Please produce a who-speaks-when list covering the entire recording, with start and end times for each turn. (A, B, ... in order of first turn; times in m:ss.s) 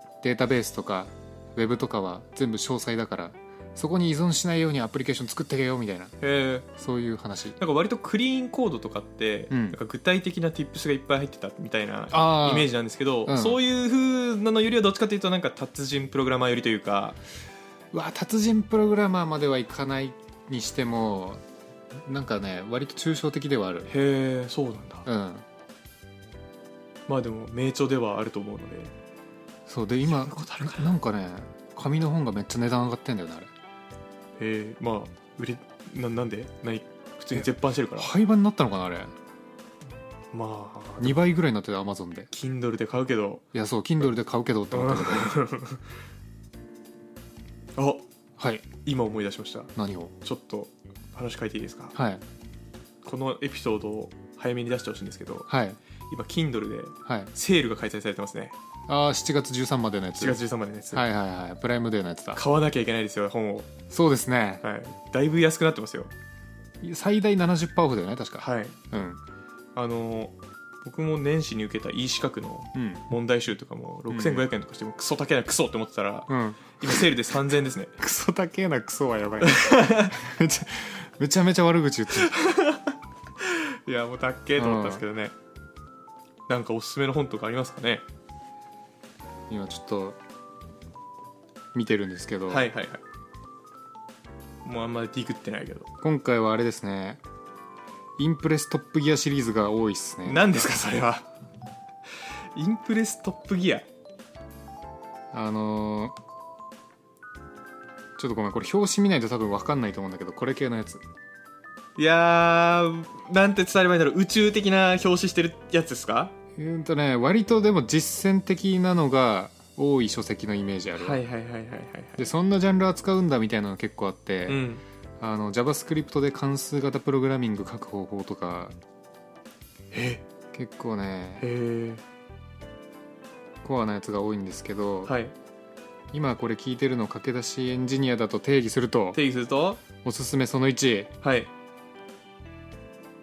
0:00.2-0:06.1 A
0:06.2-0:06.6 B
0:06.7-0:07.6 A
0:07.6-0:17.2 B
0:09.5-0:09.8 A
0:12.1-0:12.7 A
0:13.2-0:13.6 A
0:17.9-0:21.4 A
0:22.0-0:23.9 A
0:23.9-0:25.1 B
0:25.0-0:25.4 A
0:27.1-0:28.9 B
0:29.7-0:33.5 A
0:30.0-0:31.0 B
0:34.4-0:38.1 B
0:37.3-0:39.1 A
0:40.3-0:41.2 B
0:41.0-0:42.3 A
0:42.3-0:43.4 B
0:43.5-0:45.4 A
0:44.7-0:45.8 B
0:47.8-0:48.0 B
0:48.4-0:48.7 A
0:48.8-0:51.9 B
0:49.8-0:50.1 A
0:51.9-0:52.2 A
0:53.0-0:55.5 B
0:55.5-0:55.8 A
0:56.1-0:58.5 B
0:57.0-0:57.3 A
0:58.9-1:00.4 A
1:00.2-1:01.0 B
1:00.9-1:02.4 A
1:02.4-1:03.7 B
1:03.9-1:04.6 A
1:04.6-1:06.1 B
1:06.8-1:09.2 A
1:08.4-1:08.8 B
1:09.7-1:17.9 B
1:12.7-1:13.0 A
1:14.1-1:14.4 A
1:16.3-1:17.0 A
1:18.0-1:22.4 A
1:19.4-1:20.2 B
1:22.2-1:25.3 B
1:24.6-1:25.0 A
1:26.5-1:28.0 B
1:29.5-1:30.2 A
1:31.7-1:32.7 A
1:32.5-1:33.0 B
1:34.6-1:35.9 B
1:36.0-1:37.2 A
1:38.2-1:40.7 A
1:40.2-1:41.2 B
1:42.5-1:43.8 B
1:45.3-1:46.2 A
1:48.2-1:51.0 A
1:52.0-1:56.3 B
1:56.5-2:01.2 A
2:00.9-2:02.2 B
2:02.2-2:04.6 A
2:04.5-2:04.8 B
2:05.2-2:08.8 A
2:09.9-2:10.2 B
2:10.5-2:11.5 A
2:11.4-2:12.0 B
2:13.6-2:15.2 A
2:15.0-2:15.3 B
2:16.1-2:19.2 A
2:19.1-2:19.8 B
2:20.0-2:21.1 A
2:21.2-2:21.5 B